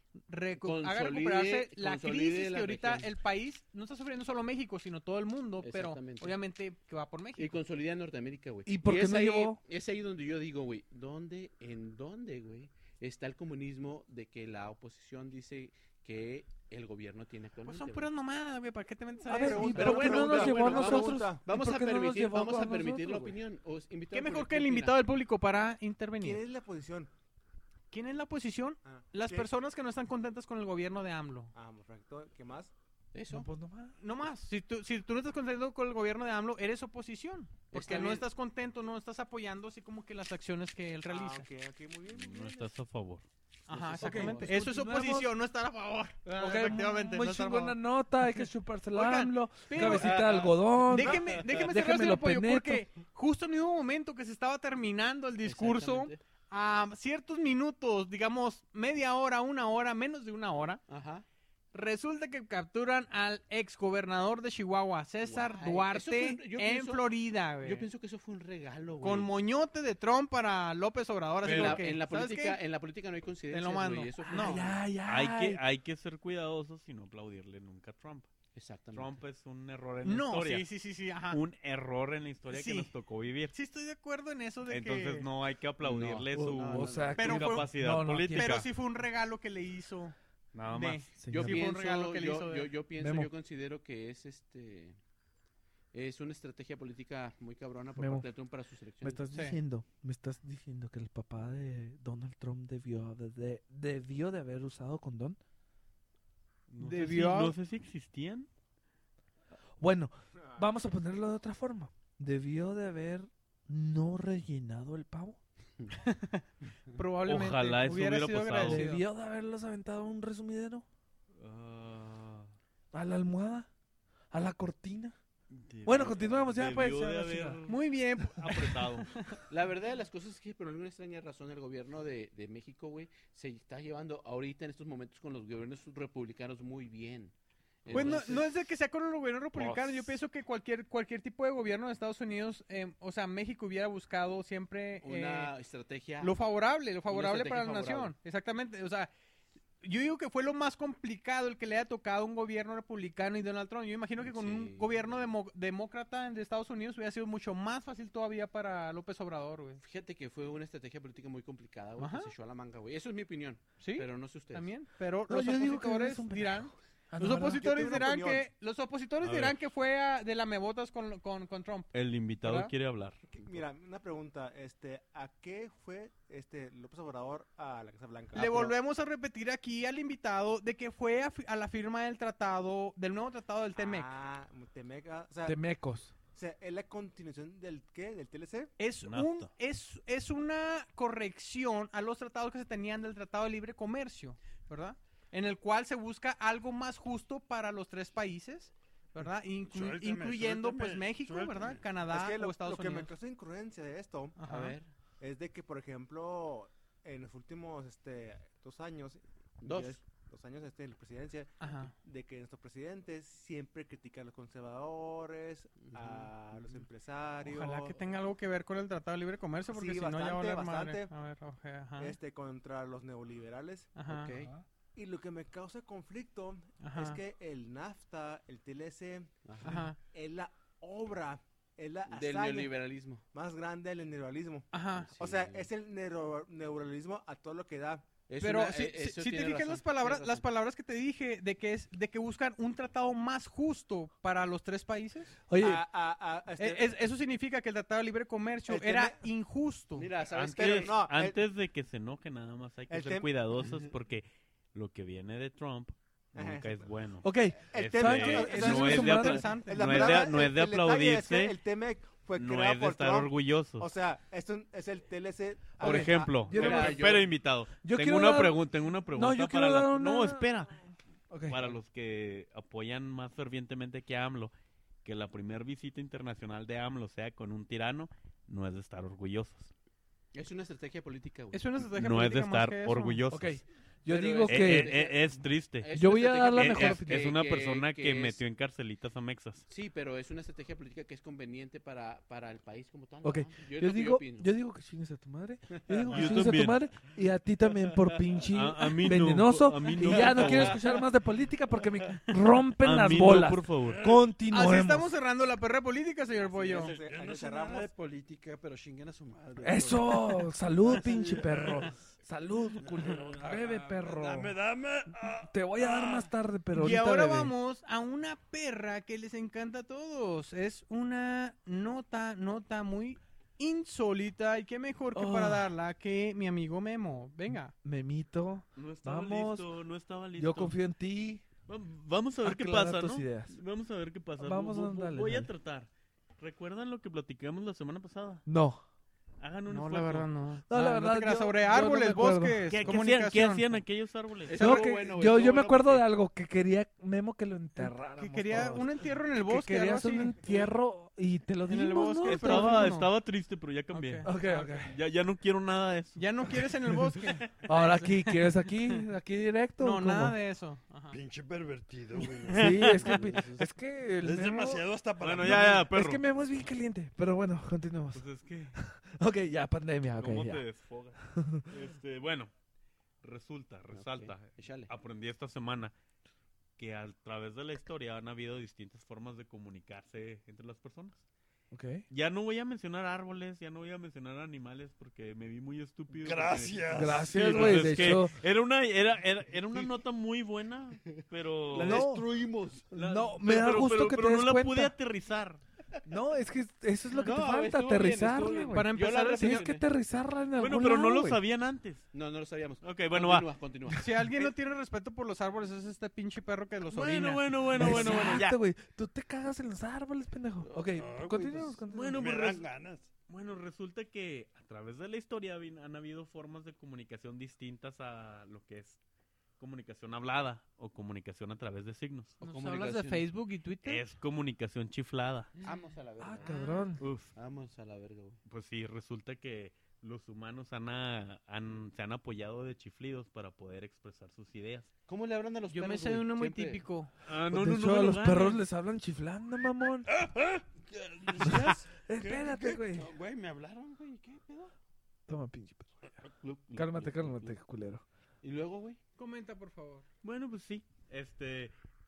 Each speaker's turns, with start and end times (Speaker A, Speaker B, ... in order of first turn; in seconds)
Speaker A: 0.3-7.6, 17.6-21.0, 24.1-26.4, 27.9-31.5, 34.0-41.5, 43.7-47.8, 48.9-50.2, 50.9-60.8, 61.7-67.9, 69.0-72.6, 73.5-74.6, 80.0-81.4, 82.5-82.9, 83.5-85.3, 87.2-90.1, 90.7-92.7, 99.3-99.6, 106.8-107.5, 116.0-119.0, 127.7-129.4, 137.9-145.5, 146.2-149.1, 149.8-159.8, 162.0-162.3, 163.8-172.7, 178.3-184.1, 188.8-203.1, 204.3-204.8, 211.6-211.9, 217.4-222.2, 223.9-224.3, 226.8-227.2, 229.6-230.0, 234.7-235.1, 238.4-245.4, 246.6-250.1, 258.3-260.2, 281.5-283.2, 304.5-307.0, 316.7-327.7, 339.7-343.7, 347.8-350.6, 351.7-353.1, 353.9-354.8, 356.1-359.0, 359.8-361.1, 398.7-399.7, 403.9-408.2, 422.4-424.0, 426.4-426.8, 435.7-437.1, 449.2-450.0
Speaker B: 0.6-3.1, 5.6-6.3, 7.4-18.1, 19.7-25.0, 33.1-33.5, 37.7-38.2, 43.7-44.6, 46.2-46.8, 49.8-50.6, 55.4-56.2, 60.9-61.2, 65.2-67.1, 67.6-69.3, 71.4-74.8, 78.5-79.2, 85.8-87.4, 91.3-95.0, 95.9-99.2, 129.5-138.5, 145.0-146.4, 147.1-148.1, 154.2-155.2, 159.8-164.7, 204.4-204.9, 209.6-210.0, 215.8-216.8, 224.1-224.5, 229.4-229.9, 232.1-233.2, 234.9-235.7, 238.3-240.4, 249.9-251.0, 266.5-267.3, 280.3-281.6, 284.1-288.4, 289.7-294.5, 295.9-296.6, 300.0-301.0, 306.7-307.0, 344.4-346.1, 373.9-374.9, 397.2-399.8, 402.1-404.4, 422.4-423.3, 425.6-426.6, 427.3-428.4, 435.1-436.8, 441.4-441.7, 442.9-444.7, 446.2-447.6, 448.4-449.0
Speaker C: 8.7-9.6, 19.3-23.4, 33.3-33.9, 44.0-45.3, 46.3-52.8, 74.3-75.6, 86.3-88.6, 91.2-91.6, 93.0-93.3, 98.0-98.3, 99.0-105.4, 109.8-115.4, 118.6-120.8, 122.9-123.7, 124.3-125.2, 125.8-127.6, 165.3-167.6, 185.4-186.1, 245.5-245.8, 257.2-259.5, 265.8-267.1, 267.8-268.6, 269.1-270.7, 271.3-271.6, 283.3-284.9, 285.9-287.3, 293.2-305.1, 309.6-314.6, 315.3-317.5, 325.1-325.7, 327.7-329.7, 330.4-331.4, 332.4-333.6, 334.4-335.5, 338.4-338.8, 340.7-342.6, 344.6-352.9, 354.2-354.9, 357.6-360.4, 362.5-364.8, 365.4-370.6, 371.2-371.7, 381.7-382.1, 386.9-388.4, 391.8-392.2, 392.9-394.9, 396.1-401.4, 407.7-412.2, 426.2-427.0, 437.5-440.1, 441.4-443.1, 445.3-446.2, 446.7-448.0
Speaker D: 19.3-21.4, 26.2-27.1, 28.8-29.5, 31.5-32.7, 41.0-42.7, 167.3-168.5, 173.3-178.7, 183.8-185.6, 186.3-188.7, 202.1-204.4, 205.2-218.0, 219.7-221.1, 222.0-223.9, 224.9-229.3, 230.0-232.7, 233.3-238.1, 245.6-246.9, 248.7-249.3, 250.5-251.4, 252.9-253.3, 256.3-256.9, 257.6-266.9, 306.6-307.9
Speaker E: 42.1-43.2, 71.4-71.8, 75.0-78.3, 78.9-80.7, 81.3-83.5, 84.7-88.7, 90.5-91.1, 106.7-108.5, 117.3-118.9, 121.4-122.5, 125.5-129.1, 137.9-138.3, 139.6-139.9, 169.2-169.6, 171.9-173.2, 189.0-189.5, 250.3-261.6, 262.4-263.9, 265.8-270.8, 271.5-274.5, 275.0-279.7, 281.9-283.5, 284.4-285.9, 286.5-289.6, 296.1-296.8, 298.5-300.9, 302.8-304.0, 328.8-330.8, 331.7-338.4, 339.4-340.3, 342.7-344.8, 352.2-356.2, 362.5-363.2, 365.2-366.2, 368.1-368.8, 370.2-372.5, 373.2-375.9, 376.8-381.2, 382.1-392.1, 392.9-395.6, 400.6-402.1, 402.8-403.5, 406.9-408.6, 411.9-412.7, 413.3-419.0, 419.6-422.4, 423.8-425.5, 427.0-427.3, 428.4-434.9, 437.3-438.6, 450.2-451.7
Speaker F: 199.6-201.8, 303.8-304.3, 306.9-311.9, 312.8-316.3, 361.1-363.6, 364.2-365.9, 386.2-388.2, 391.7-392.9, 410.8-413.1, 440.1-443.4